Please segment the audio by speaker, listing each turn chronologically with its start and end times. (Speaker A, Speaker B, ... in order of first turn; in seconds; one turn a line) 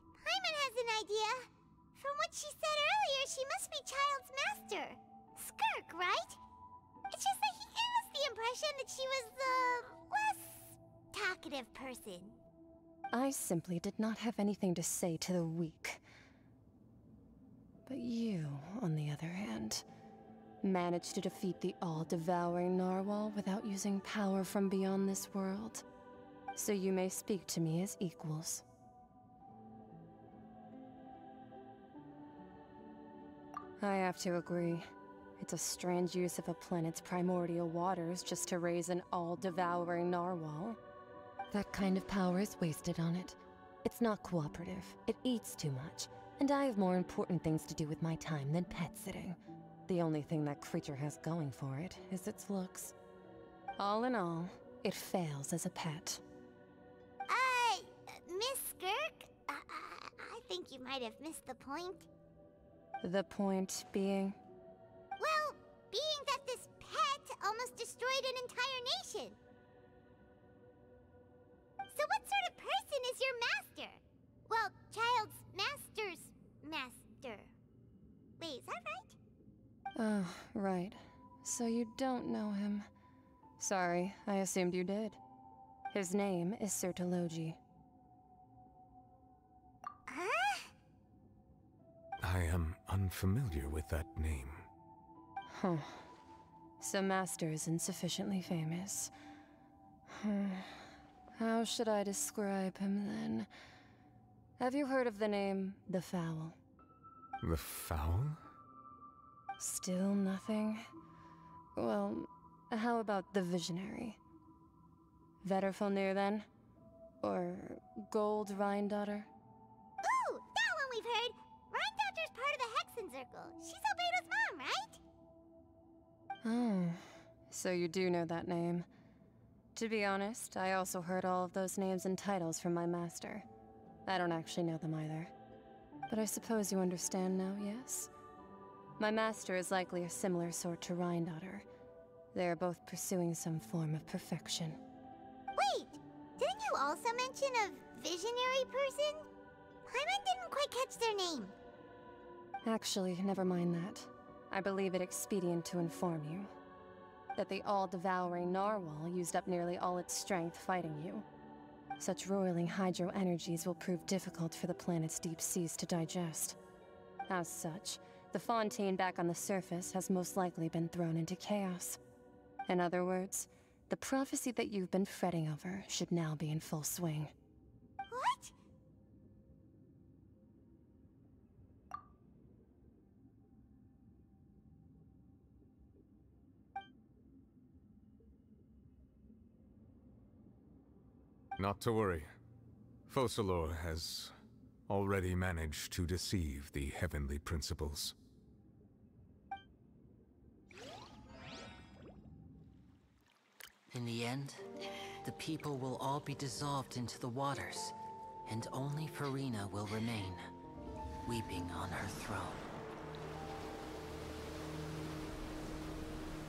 Speaker A: 0.2-6.4
Speaker A: 7.1-12.4
Speaker B: 13.1-16.0
Speaker B: 17.9-19.8
Speaker B: 20.6-25.8
Speaker B: 26.6-28.6
Speaker B: 33.8-34.9
Speaker B: 35.4-40.8
Speaker B: 41.5-53.0
Speaker B: 53.8-56.2
Speaker A: 57.3-62.1
Speaker B: 63.0-64.4
Speaker A: 65.2-69.4
Speaker A: 71.9-77.5
Speaker A: 78.4-79.2
Speaker B: 80.0-82.9
Speaker B: 83.6-85.2
Speaker B: 85.9-87.6
Speaker A: 90.1-90.7
Speaker C: 92.2-94.7
Speaker B: 95.5-96.1
Speaker B: 96.8-99.1
Speaker B: 100.1-103.5
Speaker B: 104.6-106.6
Speaker C: 107.4-108.4
Speaker B: 109.6-110.9
Speaker B: 111.8-114.2
Speaker B: 115.4-116.5
Speaker B: 117.2-119.3
Speaker A: 120.0-125.0
Speaker B: 126.4-128.9
Speaker B: 129.8-133.4
Speaker B: 134.1-135.3
Speaker B: 136.1-138.1
Speaker B: 139.0-141.7
Speaker B: 142.3-144.8
Speaker A: 145.6-149.3
Speaker A: 149.9-151.5
Speaker B: 152.7-156.5
Speaker B: 157.4-161.3
Speaker B: 162.0-166.6
Speaker B: 167.3-172.0
Speaker B: 172.7-177.3
Speaker A: 178.1-178.5
Speaker C: 191.6-192.3
Speaker C: 193.1-194.3
Speaker C: 194.9-198.2
Speaker D: 203.9-204.7
Speaker D: 205.2-207.9
Speaker D: 208.5-210.5
Speaker D: 211.2-212.7